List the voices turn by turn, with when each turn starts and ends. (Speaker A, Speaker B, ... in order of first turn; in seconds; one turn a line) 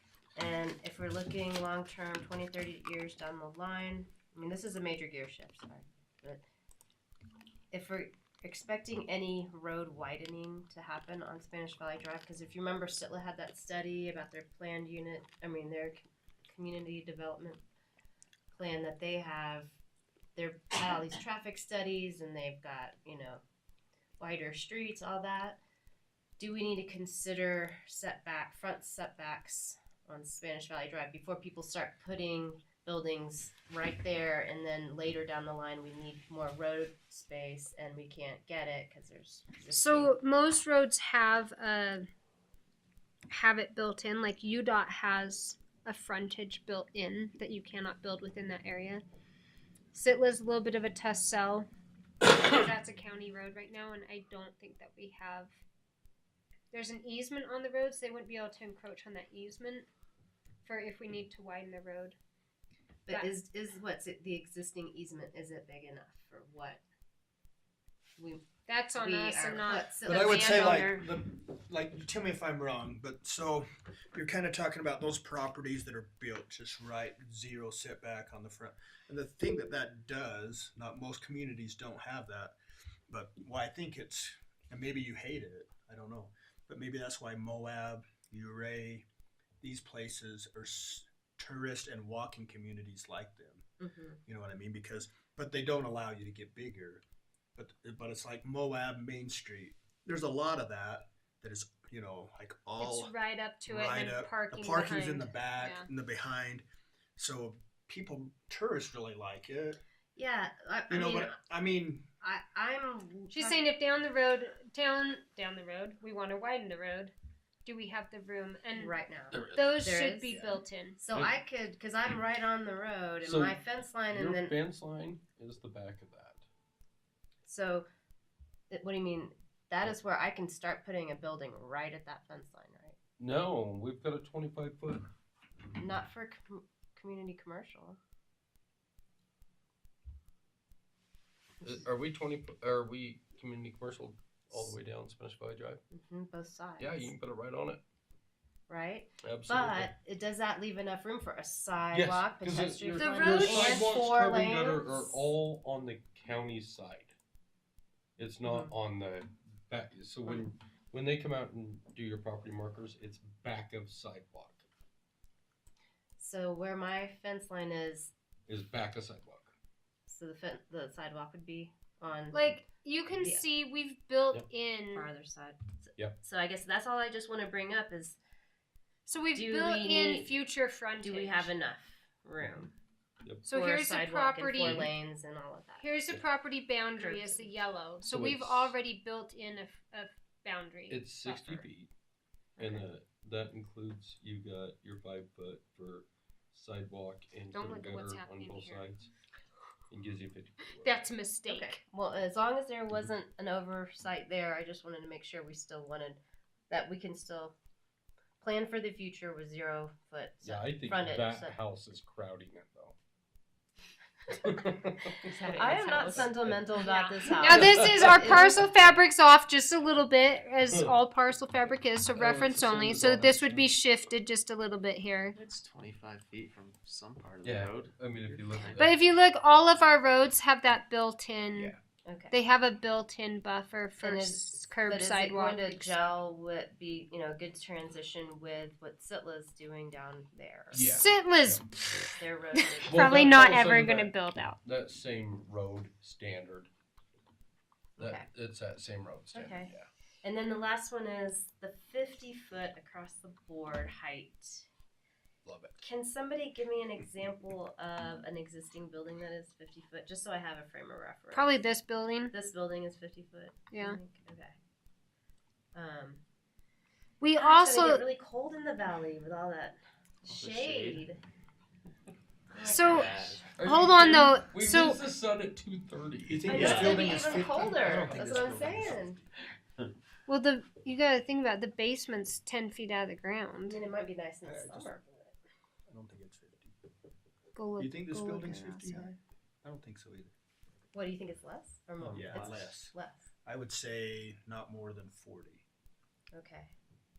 Speaker A: 0.3-6.4
Speaker A: 7.7-17.6
Speaker A: 18.5-19.8
Speaker A: 20.3-23.4
Speaker A: 24.2-25.6
Speaker A: 26.4-40.1
Speaker B: 39.7-42.0
Speaker B: 43.3-49.0
Speaker B: 49.9-51.7
Speaker B: 52.2-55.5
Speaker B: 56.7-59.9
Speaker B: 60.6-62.1
Speaker A: 63.0-66.8
Speaker A: 68.2-71.0
Speaker B: 68.7-70.9
Speaker C: 70.0-82.5
Speaker C: 83.1-89.0
Speaker C: 89.6-93.6
Speaker A: 93.8-94.2
Speaker C: 94.2-97.0
Speaker C: 97.5-103.1
Speaker B: 102.8-105.9
Speaker C: 103.7-106.6
Speaker C: 107.2-109.8
Speaker A: 110.2-111.3
Speaker C: 110.9-112.0
Speaker A: 112.2-113.7
Speaker B: 113.3-117.1
Speaker B: 117.6-118.9
Speaker A: 118.8-124.6
Speaker D: 119.3-119.7
Speaker B: 119.5-121.0
Speaker D: 123.2-123.6
Speaker D: 124.1-126.4
Speaker A: 127.4-127.9
Speaker A: 128.7-132.9
Speaker D: 133.2-135.1
Speaker A: 135.8-138.0
Speaker D: 141.6-145.8
Speaker A: 145.9-147.1
Speaker D: 146.8-147.8
Speaker A: 148.7-155.2
Speaker D: 149.2-149.9
Speaker D: 151.9-157.1
Speaker B: 152.9-153.9
Speaker D: 158.2-164.7
Speaker A: 158.4-158.7
Speaker A: 166.2-168.1
Speaker D: 168.5-169.5
Speaker A: 170.1-172.5
Speaker B: 172.3-175.1
Speaker A: 173.1-173.4
Speaker A: 174.9-178.2
Speaker B: 179.1-181.5
Speaker A: 179.3-180.3
Speaker A: 181.0-182.7
Speaker B: 183.4-184.9
Speaker A: 183.5-185.9
Speaker D: 184.6-184.9
Speaker B: 185.8-191.7
Speaker A: 187.0-187.5
Speaker D: 188.0-188.7
Speaker D: 190.9-191.9
Speaker A: 192.6-192.8
Speaker D: 192.6-199.1
Speaker B: 197.5-198.8
Speaker D: 199.9-201.1
Speaker B: 200.8-201.8
Speaker A: 201.5-206.2
Speaker A: 206.7-207.6
Speaker A: 208.4-211.6
Speaker D: 210.4-212.9
Speaker D: 214.3-216.6
Speaker E: 215.2-216.3
Speaker A: 215.3-218.7
Speaker B: 216.8-225.3
Speaker D: 217.6-218.3
Speaker D: 220.6-220.9
Speaker D: 222.2-224.1
Speaker E: 225.3-228.9
Speaker D: 227.4-228.9
Speaker B: 228.8-231.7
Speaker A: 232.1-232.3
Speaker B: 232.3-236.0
Speaker A: 234.0-241.0
Speaker D: 240.7-241.6
Speaker B: 240.8-242.2
Speaker A: 242.2-243.4
Speaker B: 242.8-244.6
Speaker D: 242.9-246.7
Speaker A: 248.0-248.3
Speaker D: 248.0-249.9
Speaker A: 249.3-254.7
Speaker D: 255.4-255.8
Speaker A: 255.8-261.6
Speaker B: 261.3-262.3
Speaker A: 262.3-264.6
Speaker B: 263.7-264.0
Speaker A: 265.7-266.2
Speaker B: 267.2-268.0
Speaker A: 267.4-271.2
Speaker E: 270.3-271.0
Speaker A: 272.5-273.4
Speaker B: 272.6-275.0
Speaker E: 272.8-273.5
Speaker D: 273.5-277.0
Speaker C: 276.2-279.2
Speaker A: 276.4-279.2
Speaker E: 276.5-277.4
Speaker B: 280.3-283.8
Speaker A: 283.7-285.3
Speaker C: 284.4-284.9
Speaker C: 285.9-286.7
Speaker B: 287.6-289.1
Speaker C: 287.8-290.3
Speaker A: 290.9-293.2
Speaker C: 292.1-292.9
Speaker C: 293.4-295.6
Speaker A: 296.3-296.7